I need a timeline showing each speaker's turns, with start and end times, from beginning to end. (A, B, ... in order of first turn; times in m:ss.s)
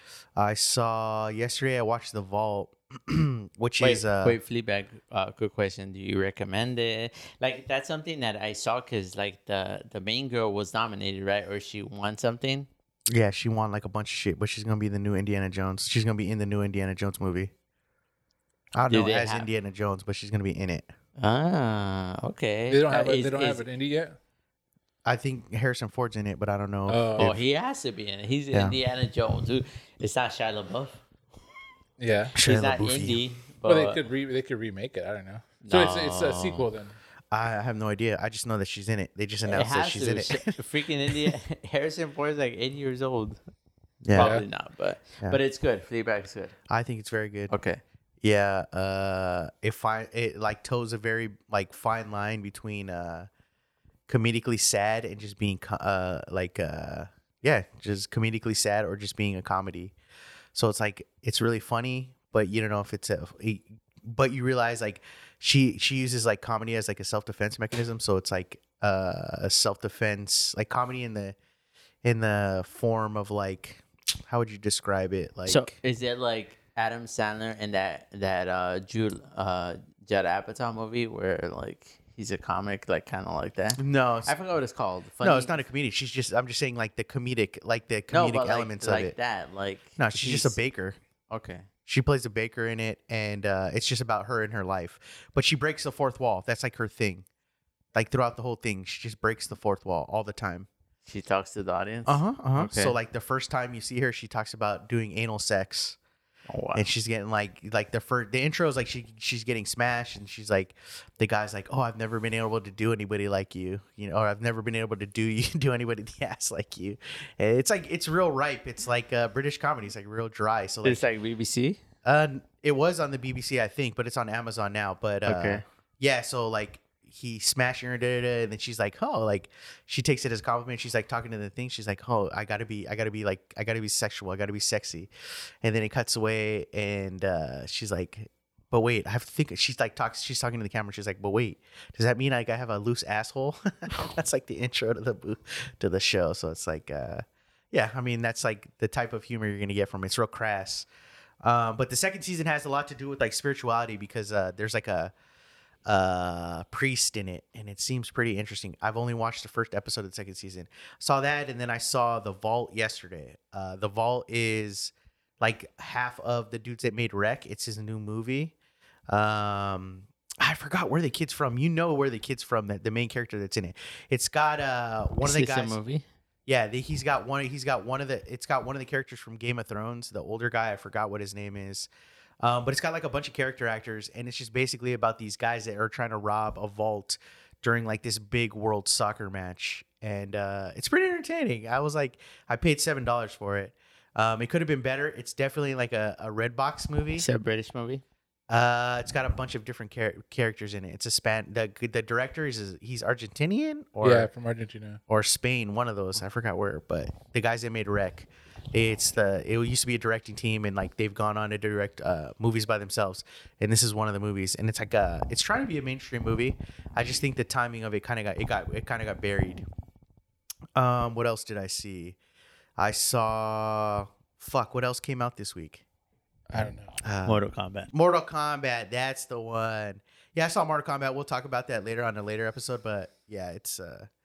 0:00.4-0:04.4 A
0:03.8-0:12.7 B
0:13.1-0:17.5 A
0:18.7-0:20.9 A
0:18.9-0:19.5 B
0:21.2-0:23.6 B
0:22.7-0:24.2 C
0:25.0-0:27.4 A
0:26.9-0:27.3 C
0:27.2-0:31.0 B
0:28.5-0:28.8 A
0:32.0-0:32.3 C
0:32.3-0:33.2 A
0:32.4-0:34.0 B
0:33.6-0:37.0 C
0:35.6-0:36.7 B
0:37.3-0:40.6 A
0:39.4-0:43.4 B
0:41.1-0:41.3 A
0:44.0-0:44.3 A
0:44.1-0:46.5 B
0:44.2-0:44.4 C
0:46.7-0:47.5 A
0:47.5-0:47.8 B
0:48.2-0:53.3 A
0:54.1-0:59.9 A
1:00.5-1:11.4 A
1:12.0-1:15.7 A
1:15.5-1:25.6 B
1:23.8-1:24.3 A
1:25.2-1:29.1 A
1:28.1-1:30.6 B
1:30.0-1:31.0 A
1:31.3-1:31.7 B
1:31.8-1:37.2 A
1:37.9-1:40.7 A
1:41.0-1:43.0 B
1:42.1-1:46.0 A
1:46.5-1:46.8 B
1:46.7-2:01.0 A
2:00.8-2:01.8 B
2:02.0-2:15.1 A
2:05.2-2:05.6 B
2:15.6-2:30.9 A
2:31.4-2:35.1 A
2:35.8-2:48.5 A
2:49.1-2:55.8 A
2:55.2-2:56.0 B
2:56.4-3:01.9 A
3:02.4-3:17.2 A
3:17.2-3:18.0 B
3:18.5-3:24.3 A
3:24.0-3:25.0 C
3:25.1-3:39.6 A
3:40.7-3:42.2 A
3:42.8-3:45.8 A
3:46.5-3:47.0 C
3:46.5-3:54.1 A
3:47.2-3:47.9 B